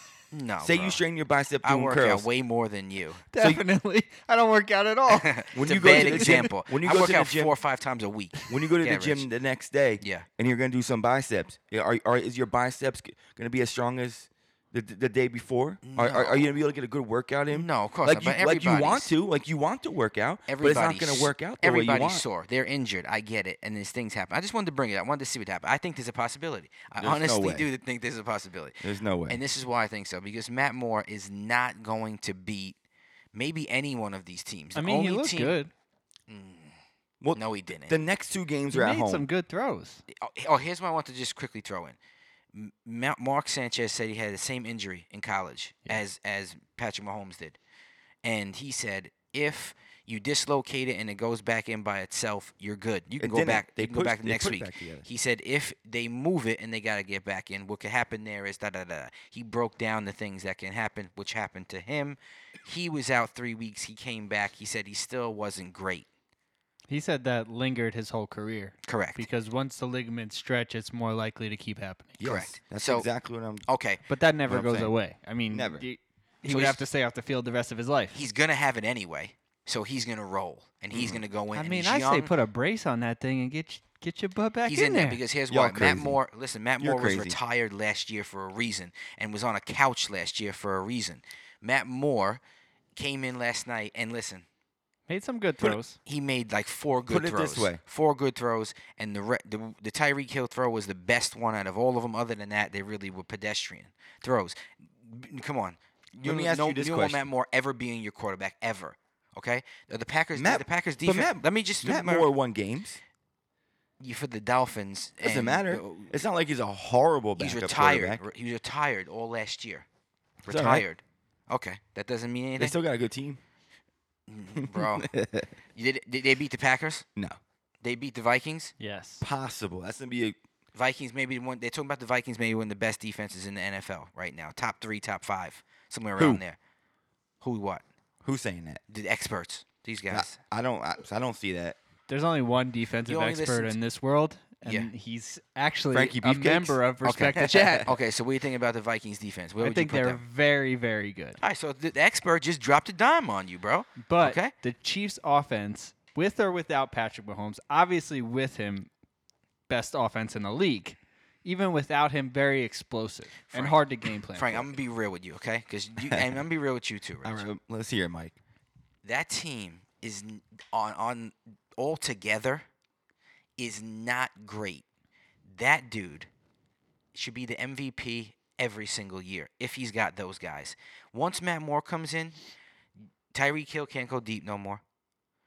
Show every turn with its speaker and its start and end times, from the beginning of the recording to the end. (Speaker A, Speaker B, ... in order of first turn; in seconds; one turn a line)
Speaker A: 0.3-1.0
Speaker B: 0.6-2.3
Speaker A: 1.6-3.3
Speaker C: 3.3-6.4
Speaker A: 5.1-9.3
Speaker B: 5.5-7.5
Speaker B: 8.5-22.3
Speaker A: 10.0-10.3
Speaker A: 15.8-16.5
Speaker A: 17.5-19.1
Speaker A: 20.5-32.8
Speaker B: 27.0-27.7
Speaker B: 28.8-29.4
Speaker A: 33.3-35.6
Speaker C: 34.8-35.7
Speaker A: 36.3-36.8
Speaker B: 37.2-39.3
Speaker A: 37.4-38.0
Speaker C: 38.7-40.0
Speaker A: 40.1-42.0
Speaker A: 42.5-47.6
Speaker A: 48.2-66.1
Speaker B: 53.2-55.0
Speaker C: 66.9-72.2
Speaker A: 68.8-69.2
Speaker B: 72.2-73.7
Speaker A: 72.2-73.1
Speaker A: 73.7-74.0
Speaker C: 74.1-78.2
Speaker B: 74.5-74.9
Speaker B: 75.5-75.8
Speaker A: 76.5-76.8
Speaker A: 78.1-82.3
Speaker B: 80.9-81.2
Speaker C: 81.5-85.2
Speaker A: 84.7-92.4
Speaker B: 85.5-86.2
Speaker B: 86.8-87.4
Speaker A: 93.0-94.5
Speaker C: 95.1-96.0
Speaker A: 96.0-112.3
Speaker B: 97.1-97.8
Speaker B: 106.2-107.2
Speaker B: 110.3-113.0
Speaker A: 114.0-116.2
Speaker B: 115.2-118.2
Speaker A: 117.4-119.8
Speaker A: 120.4-122.8
Speaker B: 120.5-120.8
Speaker B: 122.6-123.4
Speaker A: 124.3-125.1
Speaker B: 124.6-125.5
Speaker A: 125.8-127.0
Speaker A: 127.8-128.7
Speaker C: 128.8-129.2
Speaker B: 129.2-130.4
Speaker A: 130.7-136.6
Speaker B: 136.2-136.4
Speaker A: 137.4-137.8
Speaker B: 138.2-138.8
Speaker A: 138.9-140.4
Speaker B: 140.1-141.8
Speaker C: 142.1-147.9
Speaker A: 143.1-143.8
Speaker A: 144.6-144.9
Speaker B: 145.9-147.9
Speaker A: 147.0-150.2
Speaker C: 149.6-151.4
Speaker A: 151.4-154.5
Speaker C: 154.0-158.9
Speaker C: 159.7-164.7
Speaker A: 163.5-163.8
Speaker A: 164.3-167.4
Speaker B: 166.1-166.3
Speaker B: 167.2-168.3
Speaker A: 169.0-172.7
Speaker A: 173.6-174.8
Speaker A: 175.5-176.3
Speaker A: 177.1-182.4
Speaker A: 183.3-184.8